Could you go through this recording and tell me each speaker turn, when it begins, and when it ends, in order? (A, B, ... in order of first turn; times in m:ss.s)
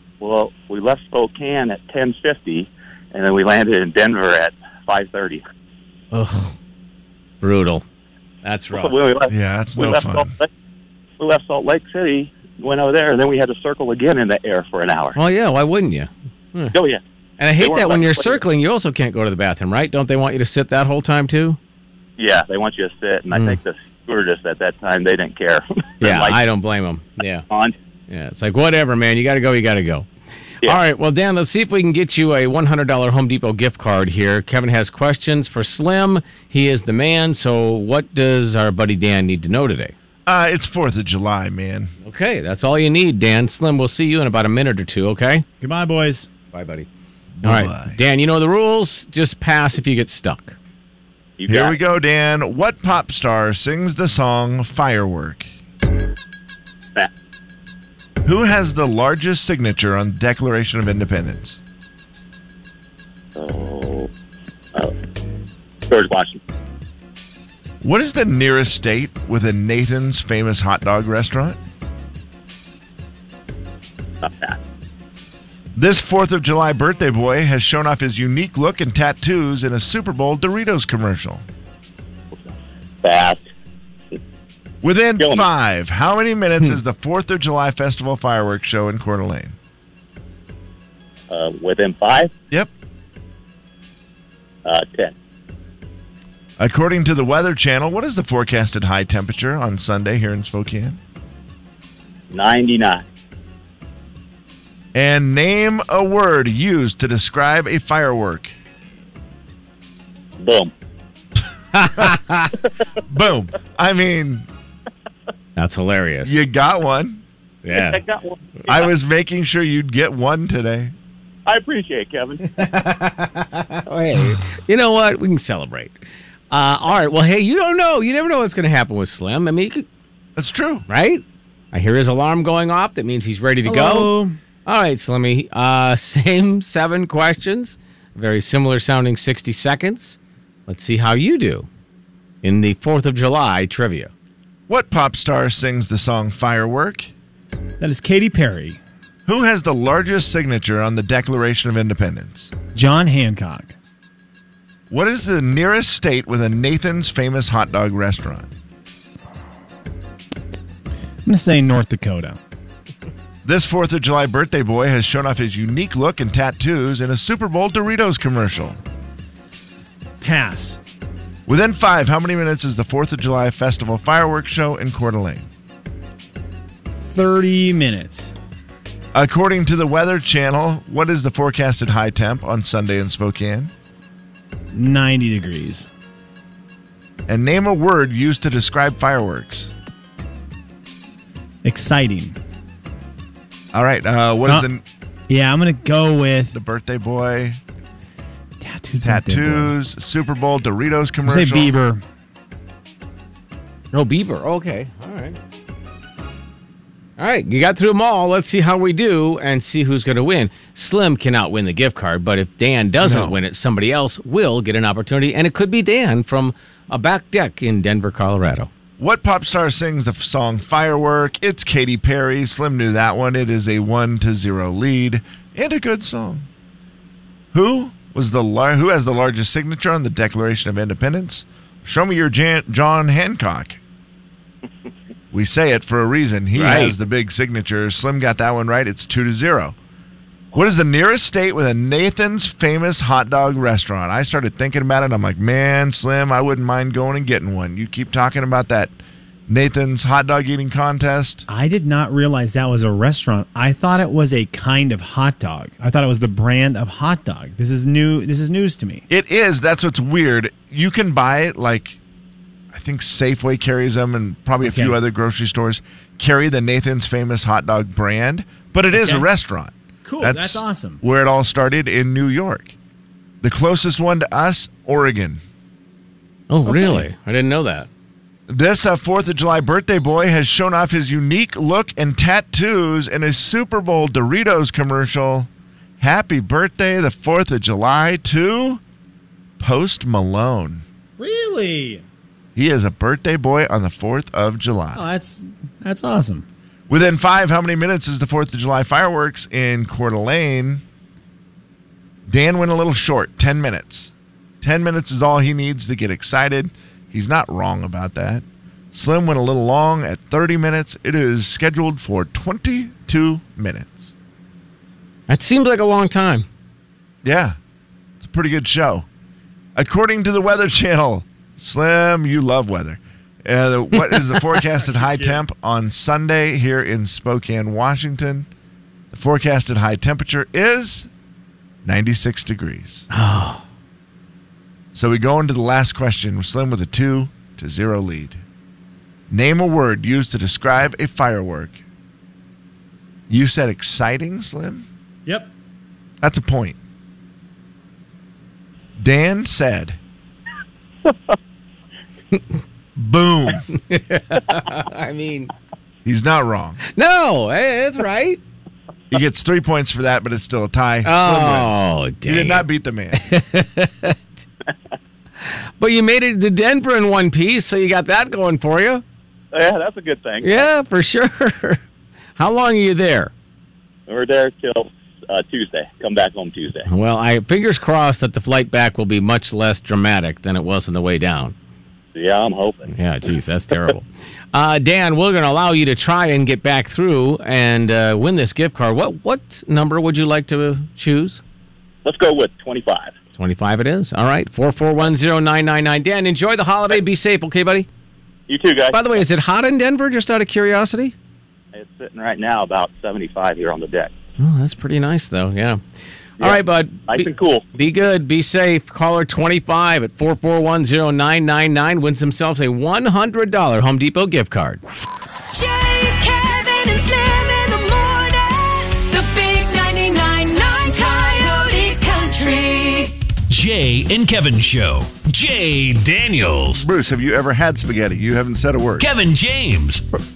0:00.2-0:05.4 A
0:06.1-0:06.5 B
0:07.4-0:07.8 B
0:08.4-0:08.9 B
0:08.7-0:10.5 A
0:09.3-0:10.3 C
0:11.2-0:15.2 A
0:15.1-0:16.7 B
0:16.7-0:17.0 A
0:17.4-0:21.6 B
0:17.6-0:18.4 A
0:22.2-0:26.4 A
0:23.3-0:23.6 B
0:26.0-0:27.4 B
0:27.5-0:27.7 A
0:28.1-0:30.1 B
0:30.6-0:39.9 B
0:40.2-0:41.9 C
0:42.0-0:45.4 B
0:45.6-0:46.3 D
0:46.5-0:46.9 B
0:47.4-0:48.0 C
0:47.4-0:50.6 B
0:51.4-0:51.8 A
0:51.5-0:55.5 C
0:58.2-1:01.6 C
1:03.4-1:04.1 A
1:05.9-1:06.4 A
1:07.8-1:11.6 C
1:14.2-1:14.6 A
1:15.8-1:21.4 C
1:23.0-1:23.5 A
1:24.8-1:29.6 C
1:25.2-1:25.4 A
1:31.3-1:32.3 A
1:34.6-1:35.1 A
1:36.6-1:41.0 C
1:42.3-1:43.0 A
1:44.9-1:48.5 C
1:50.4-1:50.7 A
1:51.7-1:52.5 B
1:53.1-1:54.5 C
1:55.6-1:56.4 B
1:56.2-1:57.2 C
1:57.6-1:58.0 B
1:57.7-1:58.9 A
1:58.7-2:00.9 C
2:01.4-2:02.5 A
2:02.5-2:06.0 B
2:06.5-2:09.8 B
2:10.4-2:10.8 C
2:10.9-2:14.1 B
2:13.6-2:14.4 D
2:14.6-2:21.7 B
2:22.4-2:24.1 B
2:24.7-2:27.1 C
2:27.8-2:28.8 D
2:29.3-2:32.5 C
2:32.7-2:33.7 D
2:34.9-2:38.5 C
2:41.2-2:42.4 D
2:43.4-2:48.8 C
2:50.2-2:50.8 D
2:51.5-2:55.5 C
2:57.1-2:58.3 D
2:59.1-3:03.7 C
3:04.7-3:05.9 D
3:07.3-3:09.7 C
3:11.6-3:12.4 D
3:13.7-3:14.8 C
3:15.3-3:16.5 D
3:16.5-3:17.6 C
3:18.6-3:19.7 D
3:19.0-3:21.7 C
3:21.2-3:22.0 D
3:23.9-3:25.4 B
3:27.2-3:38.7 B
3:33.0-3:33.4 C
3:39.0-3:46.5 C
3:47.5-3:53.8 C
3:55.3-3:59.8 C
3:56.5-3:56.9 B
4:00.5-4:08.9 C
4:09.5-4:11.4 C
4:11.5-4:19.0 D
4:19.1-4:22.0 C
4:22.7-4:32.7 C
4:24.6-4:25.0 D
4:28.9-4:29.2 D
4:30.0-4:31.0 D
4:33.4-4:35.4 C
4:36.5-4:37.9 B
4:36.6-4:37.0 D
4:38.5-4:45.5 C
4:46.0-4:48.8 C
4:49.6-4:50.8 C
4:51.2-4:52.0 D
4:52.6-4:55.0 C
4:54.9-4:56.4 D
4:56.9-5:00.8 C
5:02.3-5:14.1 C
5:15.3-5:16.4 B
5:17.2-5:17.6 C
5:18.2-5:19.0 C
5:19.8-5:28.5 C
5:24.9-5:25.4 D
5:29.1-5:31.1 C
5:31.8-5:33.1 C
5:33.1-5:33.6 B
5:34.9-5:38.4 C
5:39.3-5:41.8 C
5:43.3-5:44.8 C
5:45.2-5:45.5 D
5:46.2-5:46.8 C
5:49.0-5:50.0 C
5:51.0-5:51.4 A
5:53.0-5:53.6 C
5:53.7-5:55.5 B
5:56.0-5:56.8 C
5:56.9-5:58.4 B
5:59.1-6:03.2 C
6:01.0-6:04.4 B
6:05.4-6:09.0 B
6:09.5-6:10.7 A
6:10.4-6:11.8 B
6:12.4-6:13.3 B
6:14.1-6:16.9 A
6:16.8-6:21.5 B
6:22.1-6:22.9 A
6:22.9-6:31.4 B
6:32.0-6:33.1 A
6:33.4-6:37.9 B
6:38.5-6:39.2 A
6:38.9-6:41.1 B
6:41.7-6:44.1 A
6:44.4-6:45.8 B
6:46.4-6:47.6 A
6:46.4-6:54.8 B
6:55.5-7:03.2 E
7:03.5-7:06.8 F
7:06.7-7:09.1 C
7:09.0-7:10.0 F